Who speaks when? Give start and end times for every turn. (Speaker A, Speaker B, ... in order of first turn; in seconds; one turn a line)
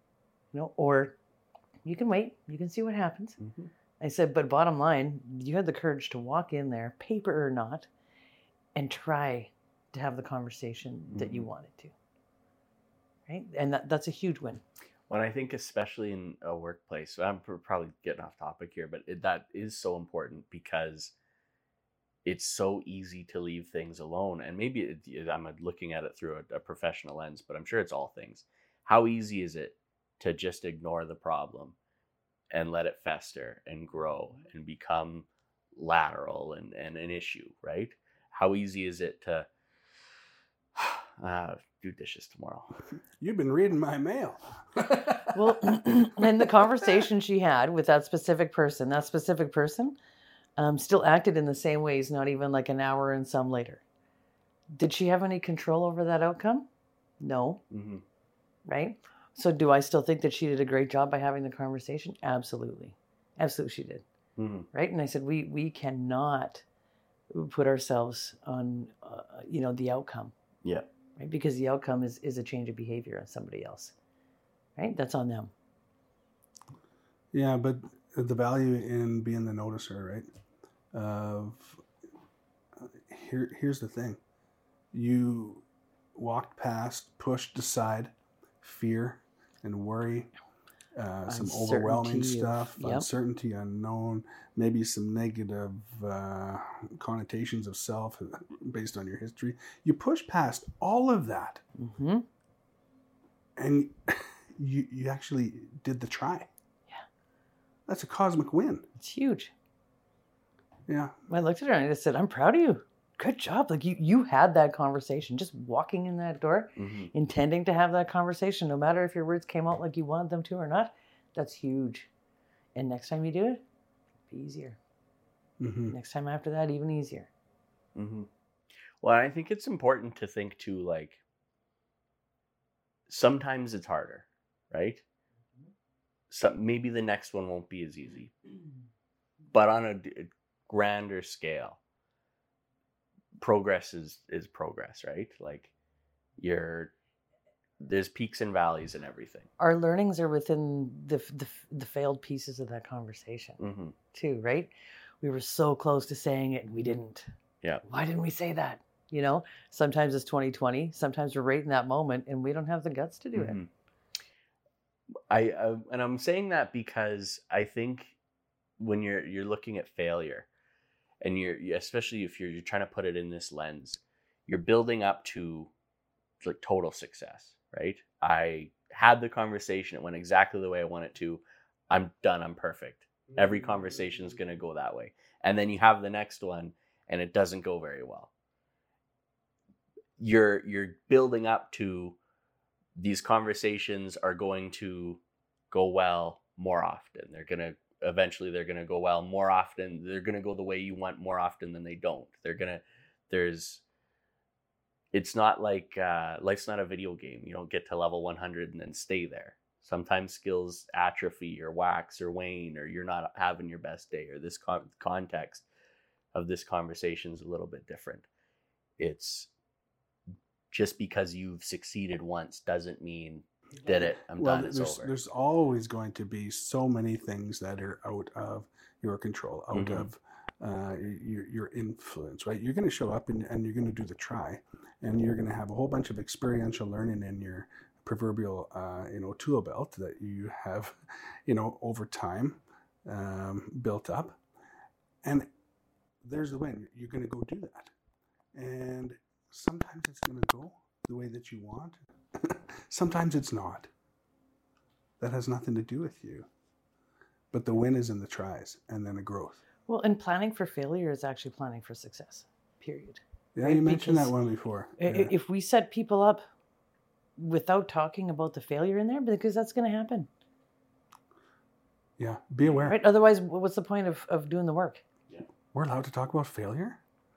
Speaker A: 0.5-1.2
Speaker A: 1.9-3.4
Speaker B: 3.4-3.7
Speaker A: 4.0-7.9
Speaker A: 8.8-11.9
Speaker B: 11.1-11.5
Speaker A: 13.3-14.6
Speaker B: 15.1-21.1
Speaker B: 22.2-31.8
Speaker B: 32.5-39.5
Speaker B: 40.8-42.8
Speaker C: 43.2-45.6
Speaker A: 45.3-50.0
Speaker A: 50.6-53.8
Speaker A: 54.8-56.7
Speaker A: 57.2-57.6
Speaker B: 57.7-58.0
Speaker A: 58.7-64.0
Speaker B: 64.4-64.7
Speaker A: 64.7-66.7
Speaker A: 67.3-70.3
Speaker B: 70.6-70.9
Speaker A: 71.2-74.0
Speaker A: 74.8-75.5
Speaker C: 77.3-80.3
Speaker C: 80.9-81.8
Speaker C: 82.8-84.2
Speaker C: 84.9-90.3
Speaker C: 91.0-101.6
Speaker A: 91.3-93.1
Speaker A: 101.8-102.3
Speaker C: 103.6-106.5
Speaker C: 107.9-108.9
Speaker A: 109.0-109.5
Speaker C: 110.9-111.2
Speaker A: 111.3-122.1
Speaker B: 116.8-117.1
Speaker A: 122.8-123.6
Speaker A: 124.3-124.8
Speaker C: 125.6-126.0
Speaker A: 125.9-127.3
Speaker B: 128.0-128.3
Speaker B: 129.0-131.2
Speaker B: 133.1-135.0
Speaker B: 136.3-138.3
Speaker B: 139.5-141.8
Speaker B: 143.4-145.7
Speaker B: 146.4-146.9
Speaker B: 147.8-149.5
Speaker A: 149.6-153.6
Speaker B: 153.6-153.9
Speaker A: 154.1-157.3
Speaker A: 157.9-163.6
Speaker B: 163.3-163.7
Speaker B: 165.3-168.2
Speaker B: 168.8-170.5
Speaker B: 171.2-175.7
Speaker B: 176.4-188.3
Speaker B: 190.2-192.2
Speaker B: 193.0-203.8
Speaker B: 205.1-215.7
Speaker B: 216.3-218.3
Speaker B: 219.0-219.5
Speaker B: 220.7-225.1
Speaker C: 223.9-244.4
Speaker B: 229.7-230.1
Speaker C: 246.2-247.9
Speaker C: 248.6-253.9
Speaker C: 255.2-256.5
Speaker C: 257.5-259.6
Speaker A: 259.9-264.3
Speaker C: 263.6-265.3
Speaker A: 265.0-266.4
Speaker A: 267.4-270.3
Speaker C: 272.2-273.0
Speaker A: 272.9-275.0
Speaker C: 275.7-277.0